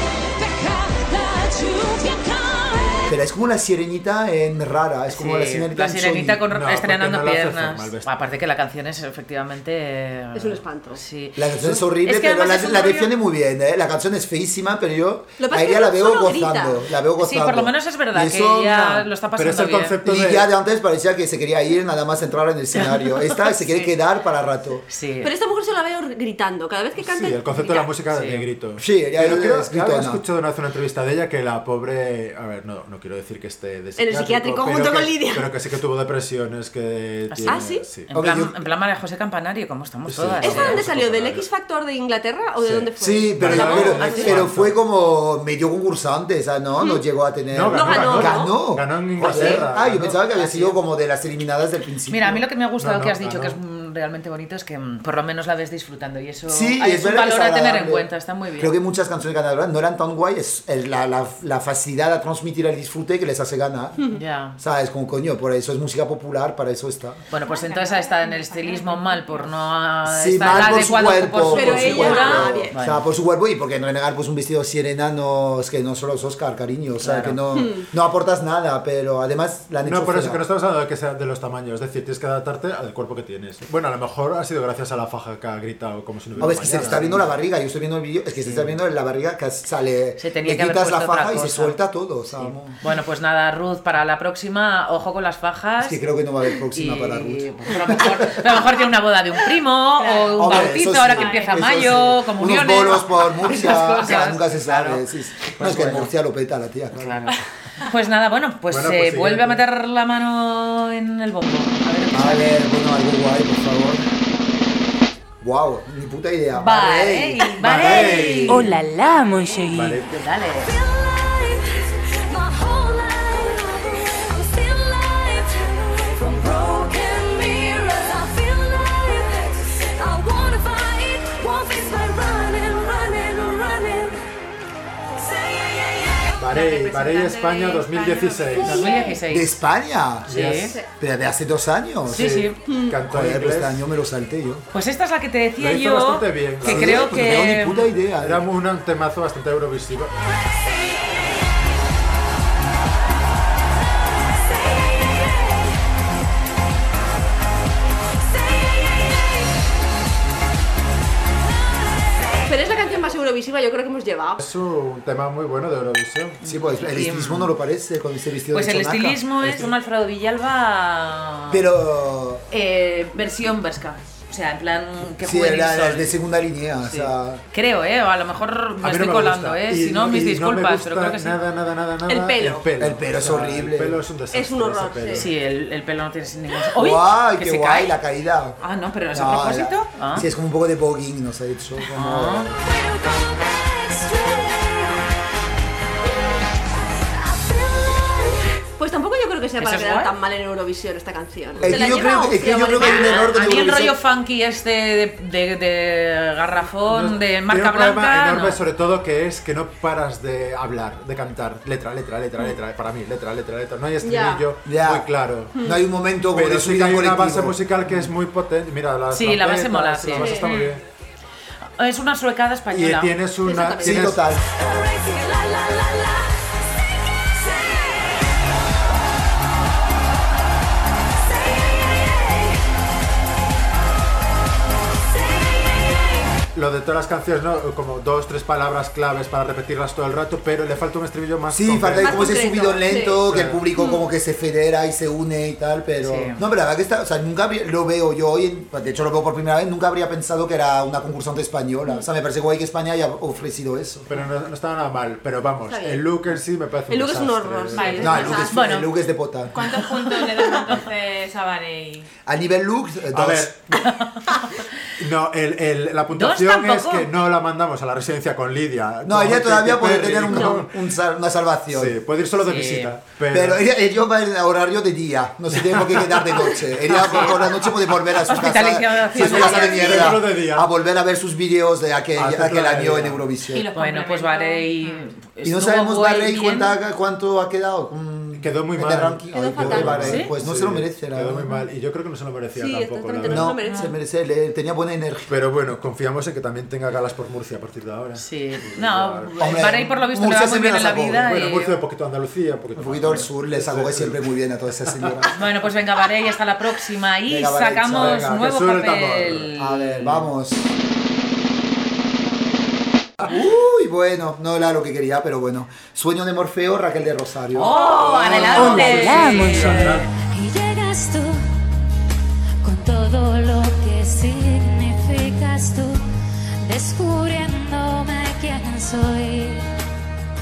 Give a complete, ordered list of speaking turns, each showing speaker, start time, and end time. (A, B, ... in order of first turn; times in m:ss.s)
0:00.4-0:03.2 A
0:03.1-0:06.4 B
0:05.1-0:13.1 C
0:06.5-0:08.2 D
0:10.3-0:11.0 E
0:11.4-0:19.1 B
0:15.4-0:16.8 E
0:17.2-0:20.0 C
0:19.4-0:20.5 D
0:20.0-0:24.9 B
0:23.6-0:23.9 C
0:24.9-0:25.3 C
0:25.2-0:27.9 E
0:27.0-0:38.1 D
0:28.1-0:28.5 C
0:28.8-0:30.2 B
0:34.0-0:35.5 E
0:37.3-0:40.8 C
0:37.5-0:37.9 E
0:38.1-0:38.6 B
0:40.1-0:41.5 D
0:40.4-0:44.4 E
0:42.6-0:52.4 B
0:43.4-0:44.8 D
0:43.6-0:44.3 C
0:47.5-0:50.2 D
0:47.7-0:48.6 E
0:50.0-0:50.8 C
0:52.1-0:58.8 C
0:52.8-0:53.6 D
0:56.5-1:04.0 B
1:04.1-1:04.6 C
1:04.6-1:07.2 B
1:07.3-1:13.0 C
1:07.4-1:09.7 F
1:10.0-1:20.4 B
1:11.5-1:12.8 E
1:17.0-1:17.4 C
1:17.5-1:17.9 E
1:19.8-1:27.3 D
1:26.4-1:32.8 B
1:26.7-1:27.0 C
1:28.4-1:28.8 C
1:30.2-1:31.8 C
1:32.3-1:36.0 C
1:35.8-1:38.6 B
1:36.7-1:46.1 C
1:40.0-1:41.8 F
1:40.4-1:47.3 B
1:47.0-1:52.6 C
1:48.7-1:49.6 D
1:52.1-1:54.1 B
1:55.4-1:58.5 B
1:56.6-1:58.8 C
1:57.6-1:58.7 D
1:58.5-2:00.0 A
1:59.4-2:00.7 C
1:59.7-2:00.2 D
2:00.6-2:14.2 A
2:15.2-2:19.0 A
2:16.4-2:19.0 D
2:16.5-2:19.1 F
2:18.6-2:19.6 C
2:18.6-2:19.1 E
2:19.3-2:20.3 B
2:20.3-2:20.8 C
2:20.3-2:20.8 D
2:21.0-2:24.6 B
2:22.1-2:22.6 C
2:22.1-2:23.9 D
2:22.6-2:23.0 E
2:24.7-2:27.9 C
2:25.6-2:27.5 D
2:26.6-2:28.4 B
2:28.2-2:30.1 D
2:30.7-2:31.3 A
2:34.6-2:35.6 A
2:38.4-2:39.2 A
2:42.5-2:44.4 E
2:44.4-2:46.4 D
2:46.4-2:47.5 C
2:46.4-2:49.2 B
2:48.5-2:51.6 C
2:49.4-2:49.7 D
2:51.5-2:52.4 B
2:52.5-2:56.2 C
2:55.2-2:57.4 B
2:56.8-3:01.4 C
2:58.8-3:05.3 D
3:02.1-3:02.7 E
3:02.8-3:04.0 B
3:04.3-3:05.3 E
3:05.2-3:08.0 C
3:06.8-3:08.6 B
3:08.6-3:10.3 C
3:09.1-3:12.5 B
3:11.9-3:12.5 C
3:12.6-3:15.1 A
3:17.1-3:18.4 A
3:18.8-3:23.3 E
3:19.6-3:20.1 C
3:21.6-3:24.0 B
3:21.8-3:22.0 C
3:22.7-3:28.6 C
3:26.8-3:35.6 D
3:34.0-3:34.4 E
3:34.6-3:37.6 B
3:36.3-3:40.8 D
3:39.1-3:40.5 C
3:40.2-3:40.5 E
3:41.8-3:43.2 C
3:42.7-3:44.2 D
3:43.4-3:44.1 E
3:43.8-3:44.4 B
3:44.5-3:48.3 A
3:51.3-3:52.6 A
3:55.2-3:56.3 A
3:56.5-4:02.4 D
4:01.5-4:14.1 B
4:02.0-4:03.2 E
4:03.2-4:03.6 D
4:03.8-4:04.0 E
4:06.0-4:06.4 C
4:14.1-4:18.4 D
4:15.7-4:16.1 E
4:16.9-4:18.5 E
4:17.7-4:18.4 F
4:18.0-4:19.5 B
4:18.2-4:18.9 C
4:19.5-4:22.1 F
4:22.3-4:23.5 B
4:23.1-4:23.6 D
4:23.8-4:24.5 C
4:25.0-4:30.7 D
4:26.1-4:27.1 C
4:29.0-4:32.0 B
4:30.3-4:30.6 E
4:31.7-4:33.6 D
4:32.4-4:33.0 C
4:33.3-4:43.7 B
4:35.6-4:36.2 D
4:36.9-4:37.4 C
4:38.2-4:40.1 C
4:39.2-4:40.7 D
4:42.2-4:43.2 D
4:43.5-4:45.1 F
4:43.7-4:46.8 C
4:45.4-4:51.5 B
4:48.4-4:53.6 D
4:49.3-4:50.2 E
4:52.6-4:53.9 E
4:53.2-4:55.3 B
4:55.3-4:59.6 D
4:58.2-5:01.8 C
4:59.4-5:01.3 B
5:01.2-5:04.2 D
5:02.8-5:05.3 B
5:04.9-5:05.2 D
5:05.3-5:10.3 C
5:07.3-5:08.3 B
5:07.9-5:09.5 D
5:09.6-5:10.7 B
5:13.2-5:19.2 B
5:17.5-5:20.0 C
5:17.7-5:21.4 A
5:18.3-5:20.1 D
5:22.6-5:26.0 A
5:26.6-5:29.7 A